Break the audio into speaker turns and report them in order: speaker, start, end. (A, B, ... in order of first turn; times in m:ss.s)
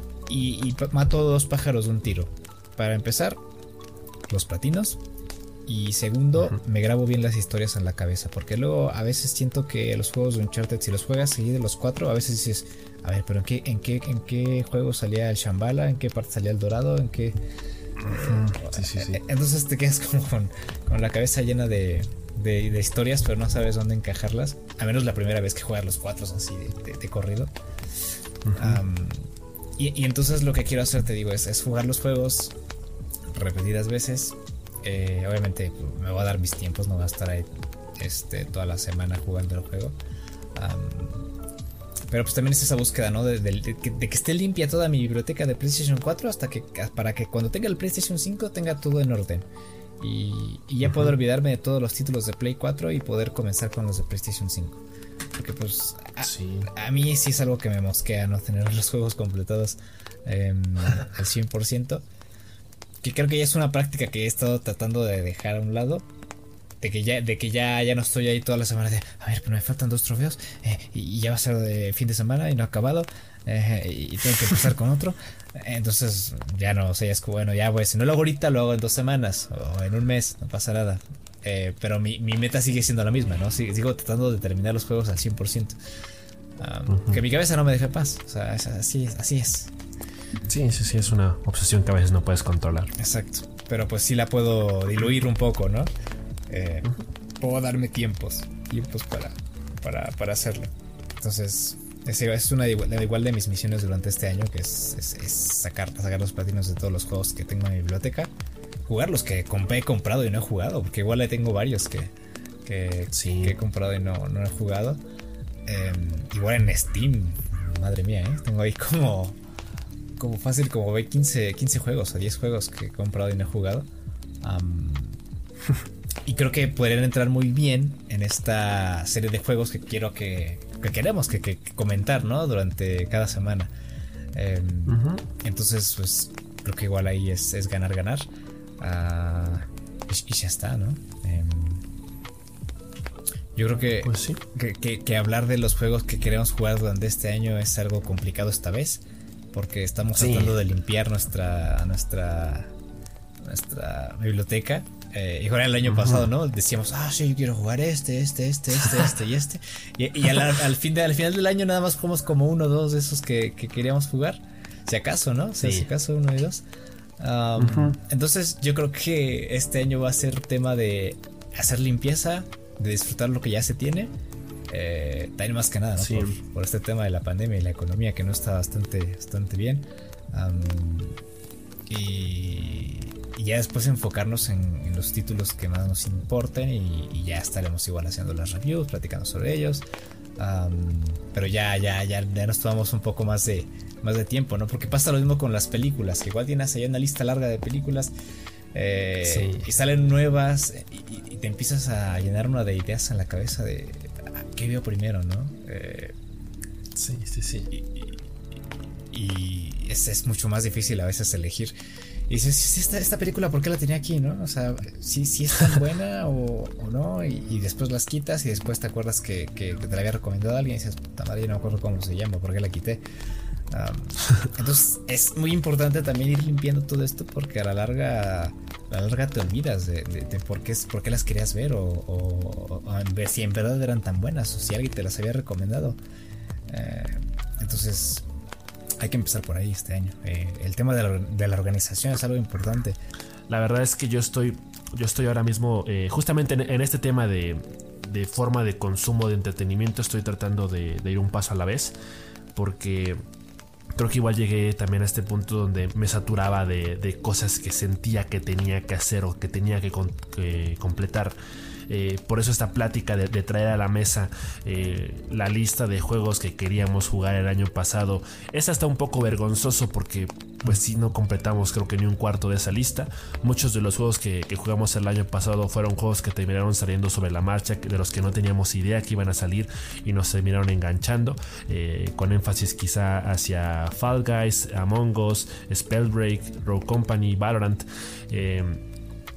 0:00.2-0:03.4 A
0:04.3-0:05.0 A
0:05.6-0:17.4 A
0:18.0-0:19.2 B
0:18.0-0:27.5 A
0:28.4-0:28.8 B
0:28.6-0:32.5 A
0:33.3-0:40.0 A
0:40.5-0:41.3 A
0:42.1-0:49.5 A
0:50.0-0:54.8 A
0:50.8-0:51.1 B
0:55.4-1:02.0 A
0:56.2-0:56.7 B
1:03.0-1:06.1 A
1:06.8-1:25.8 A
1:26.6-1:29.7 A
1:26.9-1:27.2 B
1:30.5-1:32.9 B
1:33.0-1:35.9 A
1:36.5-1:36.9 A
1:37.4-1:48.3 A
1:48.8-1:52.1 A
1:52.6-1:55.0 A
1:53.1-1:53.6 B
1:55.6-1:59.4 A
2:00.2-2:03.9 A
2:04.4-2:05.2 A
2:06.2-2:13.7 A
2:14.3-2:18.3 A
2:14.9-2:15.2 B
2:18.8-2:21.8 A
2:23.5-2:32.7 A
2:24.0-2:24.4 B
2:30.2-2:30.6 B
2:33.4-2:46.6 A
2:35.8-2:36.3 B
2:38.8-2:39.1 B
2:45.6-2:45.9 B
2:47.2-2:54.1 A
2:47.6-2:48.0 B
2:54.7-3:01.2 A
2:56.0-2:56.4 B
3:01.9-3:09.8 A
3:10.4-3:18.1 A
3:18.7-3:26.2 A
3:19.2-3:19.7 B
3:27.0-3:27.7 B
3:27.7-3:28.3 A
3:29.1-3:31.7 A
3:32.3-3:43.0 A
3:43.7-3:56.0 A
3:56.7-3:58.3 A
3:59.0-4:03.0 A
4:03.5-4:11.9 B
4:12.5-4:13.2 B
4:14.0-4:21.4 B
4:21.9-4:48.8 B